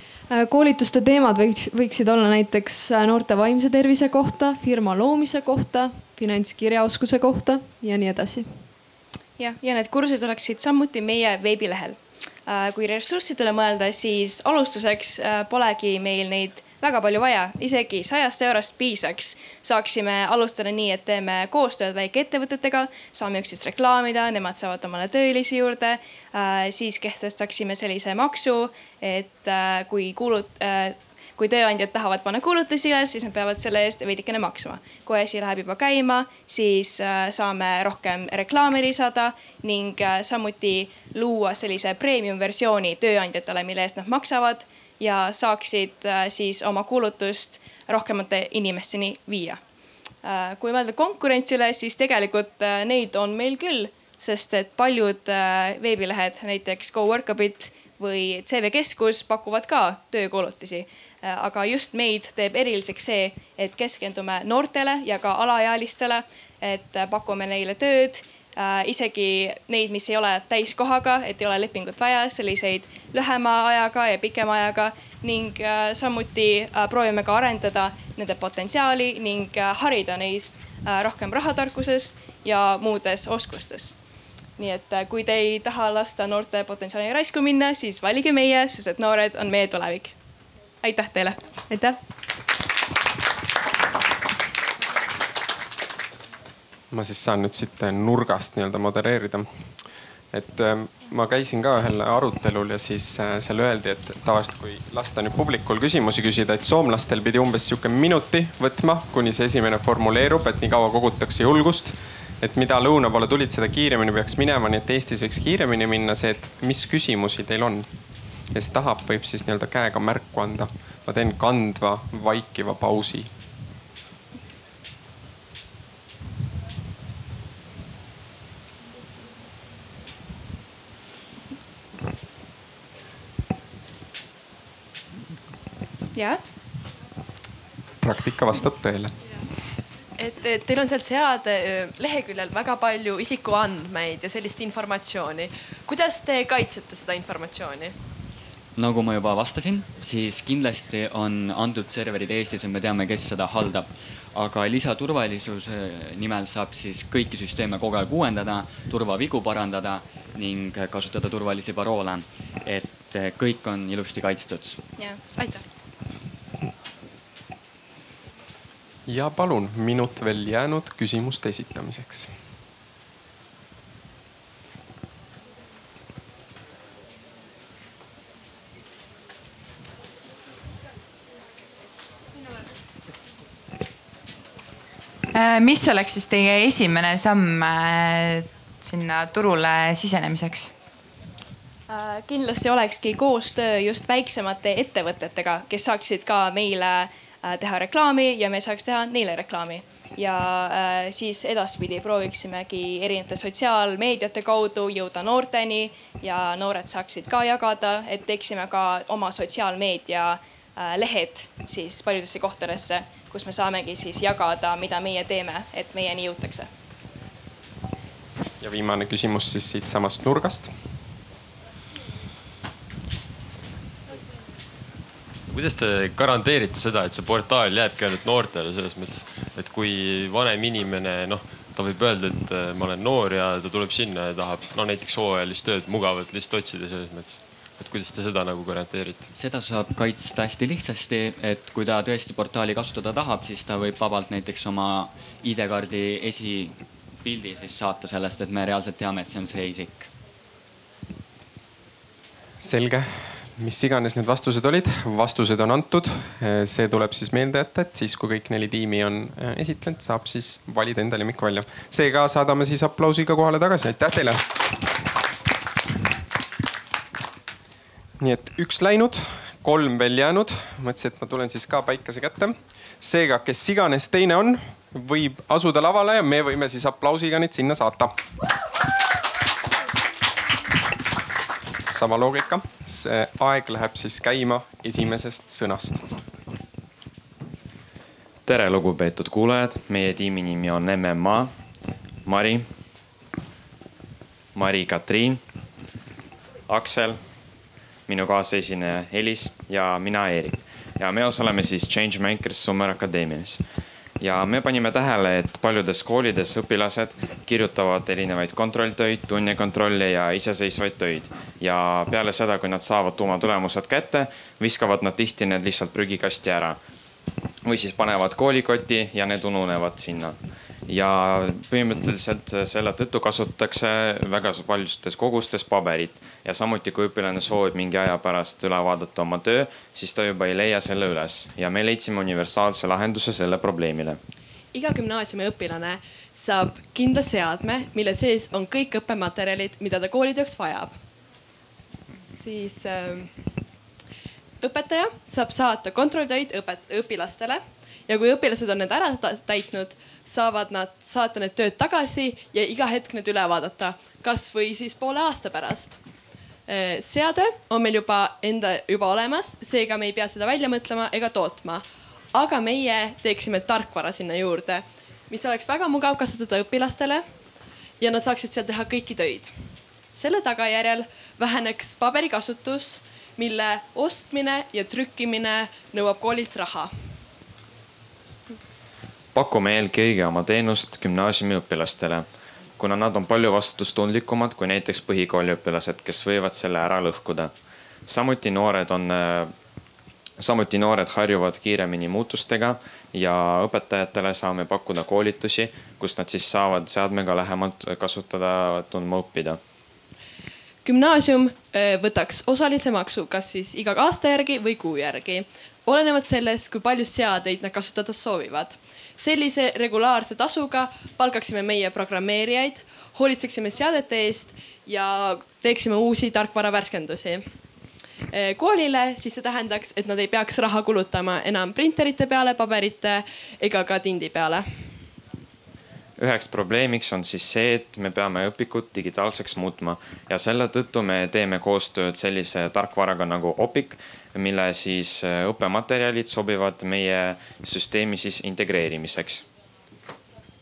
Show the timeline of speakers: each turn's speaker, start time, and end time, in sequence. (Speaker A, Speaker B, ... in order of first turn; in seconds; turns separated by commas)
Speaker A: 0.3-8.7, Speaker B: 9.4-49.6, Speaker B: 50.2-84.0, Speaker B: 84.6-90.2, Speaker B: 90.8-91.4, Speaker A: 91.7-92.0, Speaker C: 96.9-99.5, Speaker C: 100.3-117.9, Speaker C: 118.5-123.3, Speaker B: 136.2-136.4, Speaker C: 138.0-139.1, Speaker D: 140.2-147.9, Speaker E: 148.8-164.8, Speaker B: 165.0-165.6, Speaker C: 169.1-172.3, Speaker F: 185.3-190.7, Speaker B: 191.9-216.7, Speaker C: 218.6-220.7, Speaker G: 225.5-239.3, Speaker E: 239.3-250.1, Speaker C: 252.6-264.4, Speaker C: 268.2-278.1, Speaker C: 281.9-286.1, Speaker H: 288.5-291.5, Speaker H: 292.2-292.7, Speaker H: 294.6-295.4, Speaker H: 296.7-297.2, Speaker H: 298.1-303.6, Speaker H: 304.2-316.8, Speaker H: 317.6-320.4, Speaker H: 320.9-334.2, Speaker D: 334.7-341.0, Speaker D: 342.4-343.3, Speaker D: 344.6-356.0, Speaker D: 356.7-367.2, Speaker D: 368.0-369.5, Speaker D: 370.1-376.9, Speaker H: 379.3-382.3, Speaker H: 382.8-387.5, Speaker H: 388.1-389.5, Speaker H: 390.4-399.6, Speaker D: 400.9-417.5, Speaker D: 418.3-424.7, Speaker H: 426.2-439.4